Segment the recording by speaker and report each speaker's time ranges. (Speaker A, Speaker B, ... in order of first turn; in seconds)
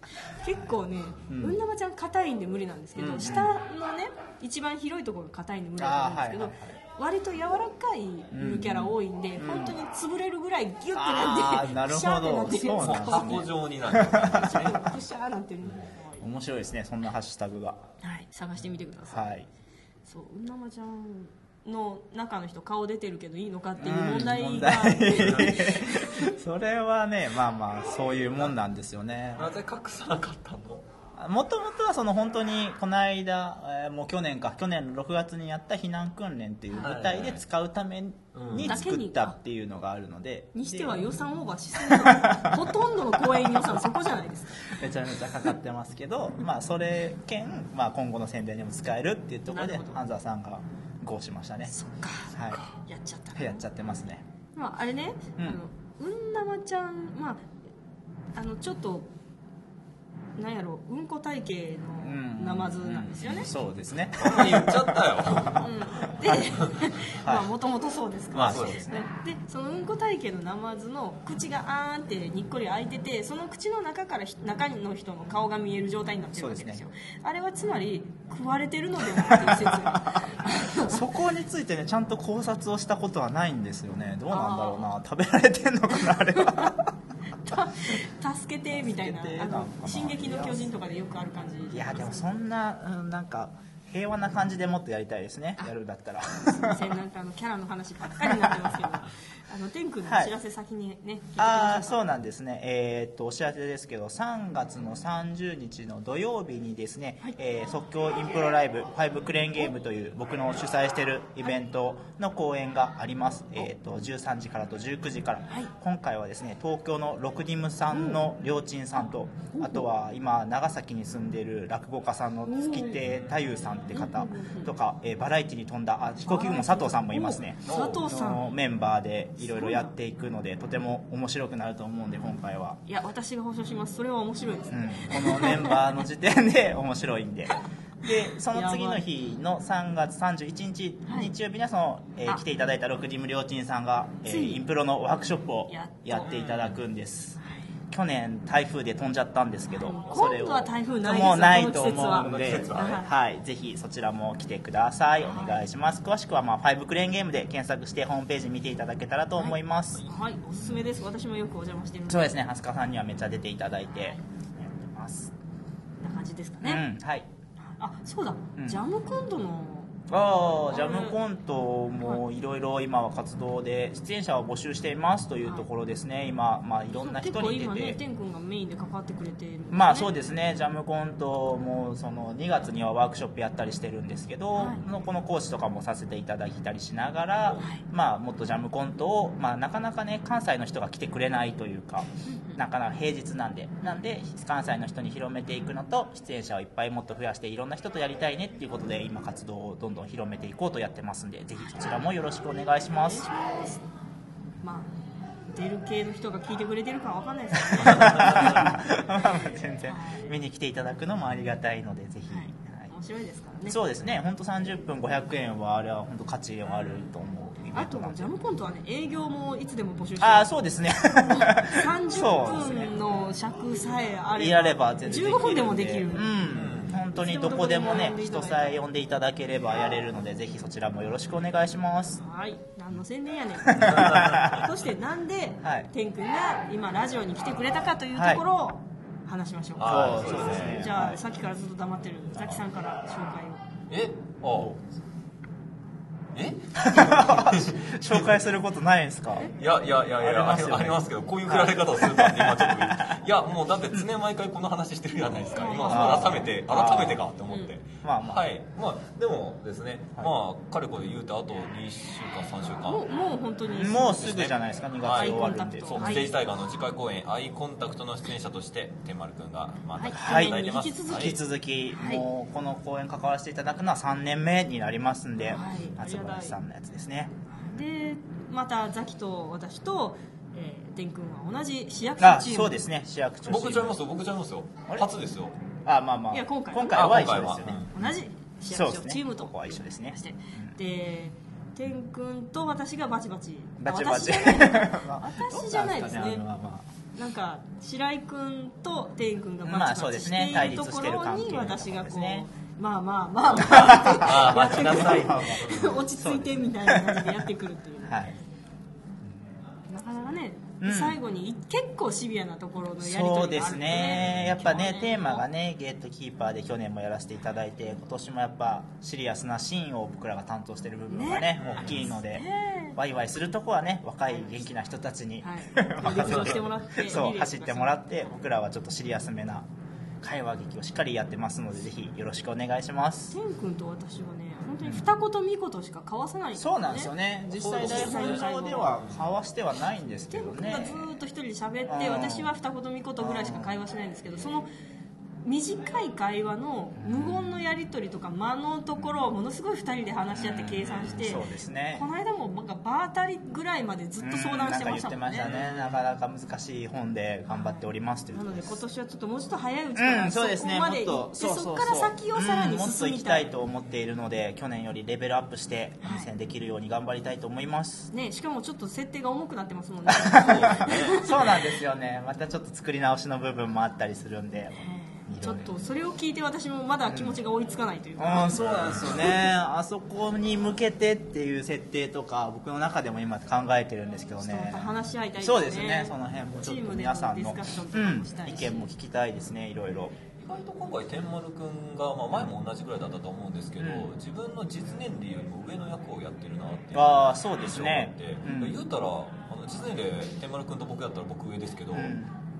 Speaker A: 0.2-13.5, 14.1-16.3, 18.0-19.3, 20.1-26.3, 38.6-39.4, 40.5-44.9, 49.5-50.0, 51.7-53.6, 54.5-57.5, 58.3-59.1, 60.4-63.5, 65.6-81.0, 84.3-84.9, 86.0-86.8, 87.4-92.4, 96.4-102.0, 117.9-118.2, 119.5-119.9, 122.5-123.0, 123.9-124.7, 126.2-128.5, 129.4-129.9, 132.8-135.8, 138.5-139.0, 141.1-141.3, 144.2-144.7, 145.7-146.3, 147.4-147.7, 149.7-153.1, 155.2-155.7, 159.4-162.4, 163.9-164.2, 166.0-166.8, 167.6-169.9, 170.7-171.2, 176.9-180.3, 184.6-184.8, 187.6-187.8, 192.3-192.6, 201.6-201.9, 202.9-203.9, 204.6-204.9, 205.5-208.7, 209.9-210.3, 212.3-213.8, 217.7-226.5, 227.1-228.8, 232.2-243.6, 255.5-256.5, 257.5-257.8, 262.9-264.4, 265.1-266.4, 269.9-271.4, 271.9-272.3, 275.4-276.6, 277.5-282.8, 286.3-287.4, 287.9-296.5, 297.1-308.2, 309.9-315.5, 321.1-323.0, 324.3-324.7, 325.4-328.4, 333.3-337.1, 337.8-339.0, 340.3-344.7, 345.4-355.5, 357.5-363.5, 366.0-366.3, 368.1-371.6, 374.8-378.6, 384.4-388.9
Speaker B: 0.6-1.6, 3.0-3.5, 5.8-6.8, 8.3-9.8, 10.9-14.8, 16.2-17.8, 19.0-19.5, 23.8-29.5, 31.2-41.0, 41.8-42.6, 44.7-51.8, 52.3-52.6, 53.4-54.2, 62.0-65.6, 67.2-67.5, 68.3-68.8, 76.3-76.9, 79.3-86.9, 88.7-90.7, 91.7-96.9, 98.2-98.8, 100.0-100.3, 101.4-132.8, 134.7-147.4, 147.9-160.1, 160.6-160.9, 162.1-165.3, 166.6-167.3, 168.6-168.8, 170.1-178.0, 179.7-203.3, 207.6-212.9, 213.7-218.3, 220.2-222.9, 224.3-232.2, 233.7-234.7, 235.6-235.9, 238.1-238.4, 239.8-241.2, 242.3-242.6, 244.5-244.8, 246.8-249.5, 250.2-253.2, 255.8-257.3, 258.0-258.5, 263.7-266.3, 270.1-277.4, 282.2-284.0, 285.9-290.8, 293.8-296.9, 299.6-302.5, 303.6-307.4, 308.0-308.4, 309.2-309.6, 310.8-311.2, 313.0-329.7, 330.2-333.4, 334.8-335.1, 336.6-341.1, 341.9-342.6, 343.2-343.8, 347.0-347.8, 349.0-349.3, 350.3-352.1, 354.2-358.8, 360.0-368.1, 370.1-375.9, 377.0-377.4, 378.2-390.2, 393.8-394.1, 396.9-398.8, 401.9-402.4
Speaker C: 12.8-15.0, 25.1-25.6, 29.4-30.9, 36.8-37.4, 38.3-38.9, 64.2-65.7, 66.5-66.8, 68.3-69.0, 127.7-128.1, 146.3-146.8, 152.1-153.0, 207.9-208.7, 226.5-227.0, 233.8-234.7, 239.8-240.8, 243.9-244.8, 246.3-248.5, 249.5-263.0, 264.2-271.4, 283.4-285.6, 286.9-287.9, 303.6-306.0, 314.0-314.7, 321.5-322.1, 326.0-326.6, 337.5-339.4, 355.4-356.0, 370.4-371.5, 378.5-379.4, 390.4-402.2